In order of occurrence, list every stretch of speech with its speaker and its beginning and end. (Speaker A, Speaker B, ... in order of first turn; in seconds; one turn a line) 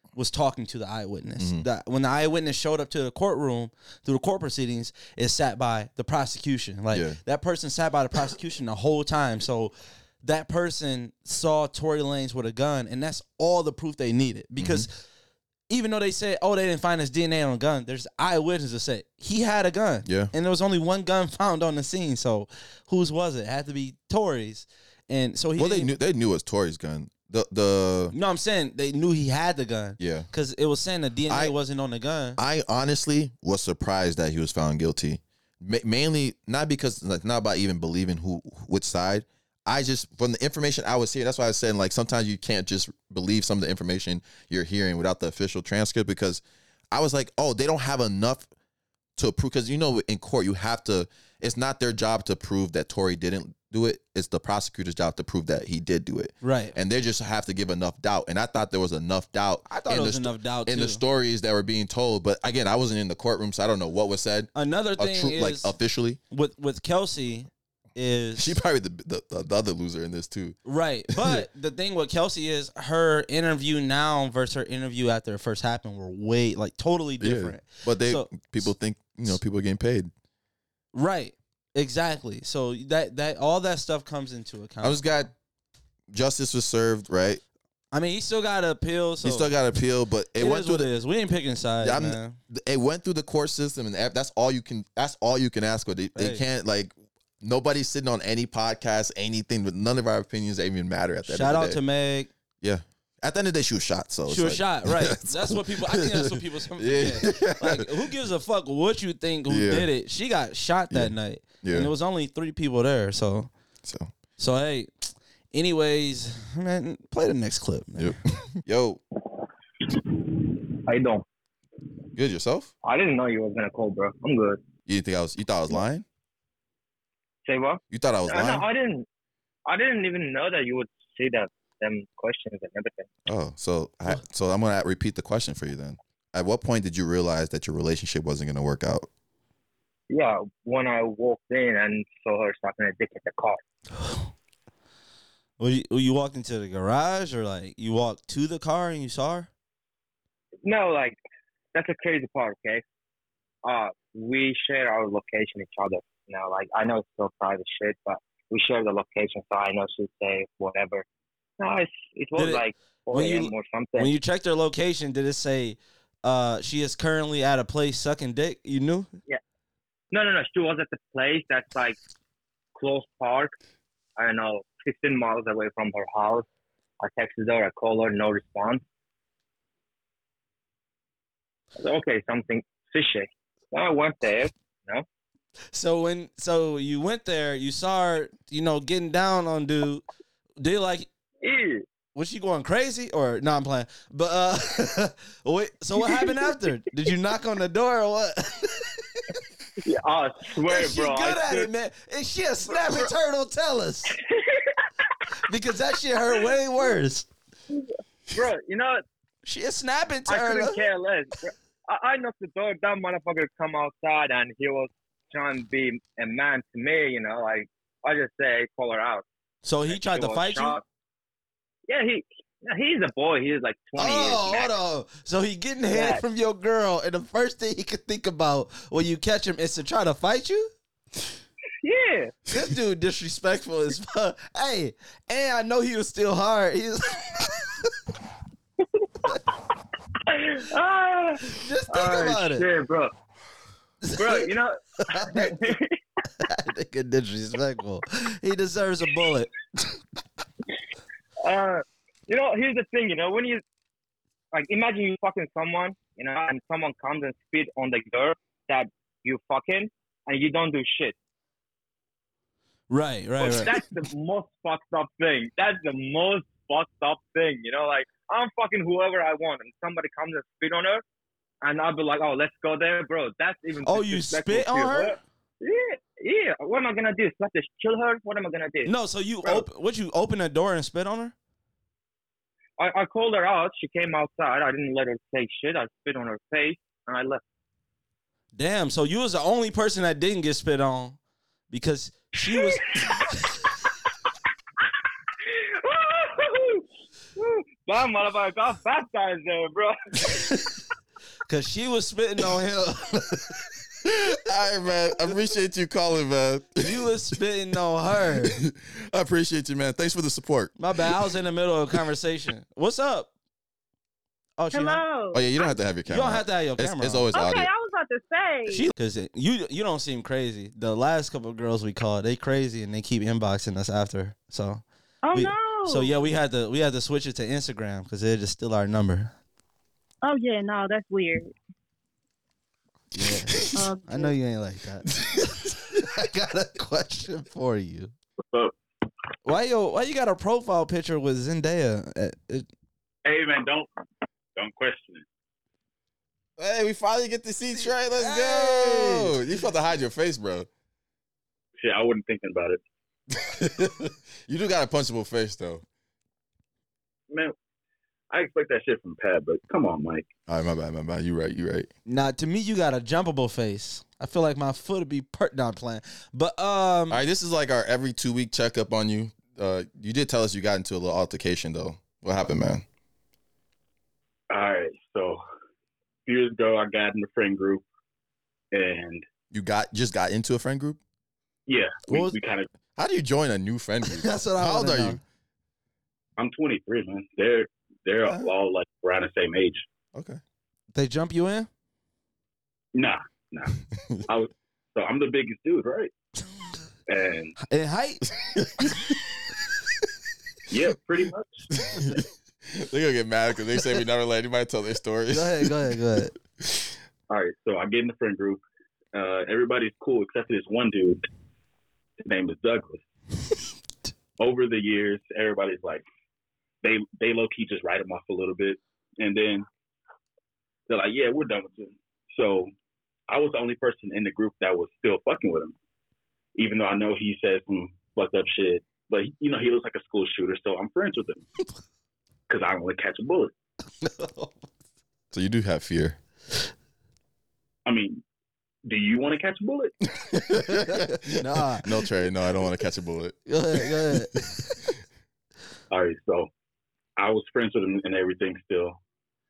Speaker A: 0.2-15.0
Speaker B: 1.4-1.6
Speaker B: 6.9-7.2
Speaker B: 14.6-14.9
Speaker A: 15.7-25.9
Speaker B: 20.1-20.3
Speaker B: 25.6-28.1
Speaker A: 28.1-32.4
Speaker B: 30.0-30.3
Speaker B: 31.3-31.6
Speaker B: 32.4-48.5
Speaker B: 49.2-66.2
Speaker A: 56.4-56.8
Speaker A: 59.7-61.0
Speaker A: 64.5-65.7
Speaker A: 66.3-68.5
Speaker B: 68.4-70.6
Speaker A: 70.7-78.4
Speaker B: 71.1-71.4
Speaker B: 77.2-80.1
Speaker A: 80.9-85.0
Speaker B: 84.8-85.3
Speaker B: 86.1-87.4
Speaker A: 87.9-89.5
Speaker B: 89.2-90.9
Speaker A: 90.4-92.4
Speaker B: 91.8-101.8
Speaker A: 96.2-96.4
Speaker A: 101.3-102.3
Speaker B: 102.6-107.9
Speaker A: 104.3-113.5
Speaker B: 109.5-109.9
Speaker B: 110.9-111.9
Speaker B: 113.8-114.1
Speaker A: 114.4-118.2
Speaker B: 118.0-119.0
Speaker C: 119.9-121.2
Speaker B: 122.2-122.7
Speaker C: 122.8-124.6
Speaker B: 124.9-126.0
Speaker C: 127.5-129.1
Speaker B: 127.9-128.7
Speaker C: 129.7-133.1
Speaker B: 133.3-139.1
Speaker C: 140.1-143.6
Speaker A: 144.0-144.3
Speaker A: 145.6-149.5
Speaker C: 150.7-151.2
Speaker C: 151.7-152.8
Speaker C: 153.6-161.1
Speaker C: 161.6-164.1
Speaker A: 162.4-169.1
Speaker C: 170.1-172.0
Speaker C: 172.8-173.5
Speaker C: 174.2-176.5
Speaker C: 177.0-178.8
Speaker C: 181.8-185.1
Speaker A: 185.7-190.0
Speaker A: 190.6-191.1
Speaker C: 191.4-191.8
Speaker A: 192.2-199.3
Speaker C: 199.8-201.7
Speaker A: 200.7-204.2
Speaker C: 204.2-205.1
Speaker A: 205.4-207.3
Speaker C: 207.7-209.0
Speaker A: 209.4-210.8
Speaker C: 210.3-219.3
Speaker A: 219.6-220.8
Speaker C: 219.9-220.8
Speaker C: 221.9-224.7
Speaker A: 224.0-230.7
Speaker C: 225.9-226.2
Speaker C: 231.8-232.3
Speaker A: 232.5-237.5
Speaker C: 239.0-239.3
Speaker C: 240.3-243.1
Speaker A: 241.5-242.7
Speaker A: 244.0-244.5
Speaker C: 244.2-246.0
Speaker A: 245.1-245.6
Speaker A: 246.4-249.5
Speaker C: 251.4-253.6
Speaker C: 254.5-261.1
Speaker A: 262.9-263.8
Speaker C: 263.4-271.0
Speaker C: 271.6-278.9
Speaker A: 273.8-275.2
Speaker A: 278.9-281.3
Speaker C: 282.8-287.4
Speaker A: 288.6-291.2
Speaker A: 291.7-292.9
Speaker C: 292.6-293.2
Speaker C: 295.5-296.9
Speaker C: 297.4-300.4
Speaker A: 301.5-303.6
Speaker B: 304.1-307.1
Speaker A: 306.8-308.6
Speaker B: 308.5-310.8
Speaker A: 310.8-313.3
Speaker A: 314.6-315.0
Speaker D: 314.7-315.5
Speaker B: 315.3-317.7
Speaker A: 316.1-317.3
Speaker D: 317.3-318.9
Speaker A: 318.7-329.3
Speaker D: 325.2-326.2
Speaker D: 330.2-331.5
Speaker A: 333.1-338.1
Speaker D: 333.8-334.3
Speaker B: 335.2-335.7
Speaker A: 339.4-342.7
Speaker E: 343.2-343.9
Speaker E: 344.6-345.2
Speaker B: 346.6-350.7
Speaker A: 347.7-349.4
Speaker E: 351.8-352.8
Speaker B: 353.3-355.8
Speaker E: 357.3-357.6
Speaker E: 358.3-360.3
Speaker B: 360.5-361.9
Speaker A: 362.1-367.2
Speaker B: 367.1-372.9
Speaker E: 374.5-375.4
Speaker E: 376.3-377.8
Speaker E: 378.7-379.3
Speaker B: 379.5-381.0
Speaker E: 381.7-382.7
Speaker A: 382.1-382.4
Speaker B: 383.0-385.2
Speaker A: 384.1-385.2
Speaker E: 386.4-389.9
Speaker B: 390.1-390.4
Speaker A: 390.9-391.7
Speaker E: 392.9-396.1
Speaker E: 397.1-397.5
Speaker A: 397.6-398.2
Speaker B: 398.4-399.3
Speaker E: 400.7-401.7
Speaker B: 401.7-405.9
Speaker A: 405.3-406.3
Speaker E: 407.3-408.6
Speaker E: 409.1-411.2
Speaker E: 412.2-413.0
Speaker E: 414.4-416.0
Speaker E: 416.8-419.7
Speaker E: 420.9-422.7
Speaker E: 423.3-425.7
Speaker E: 426.6-431.4
Speaker E: 432.5-433.5
Speaker A: 434.0-434.7
Speaker B: 435.3-436.2
Speaker E: 437.9-438.2
Speaker E: 438.9-439.9
Speaker B: 440.2-444.4
Speaker A: 440.7-442.0
Speaker A: 443.5-444.8
Speaker E: 445.9-446.5
Speaker E: 447.2-449.0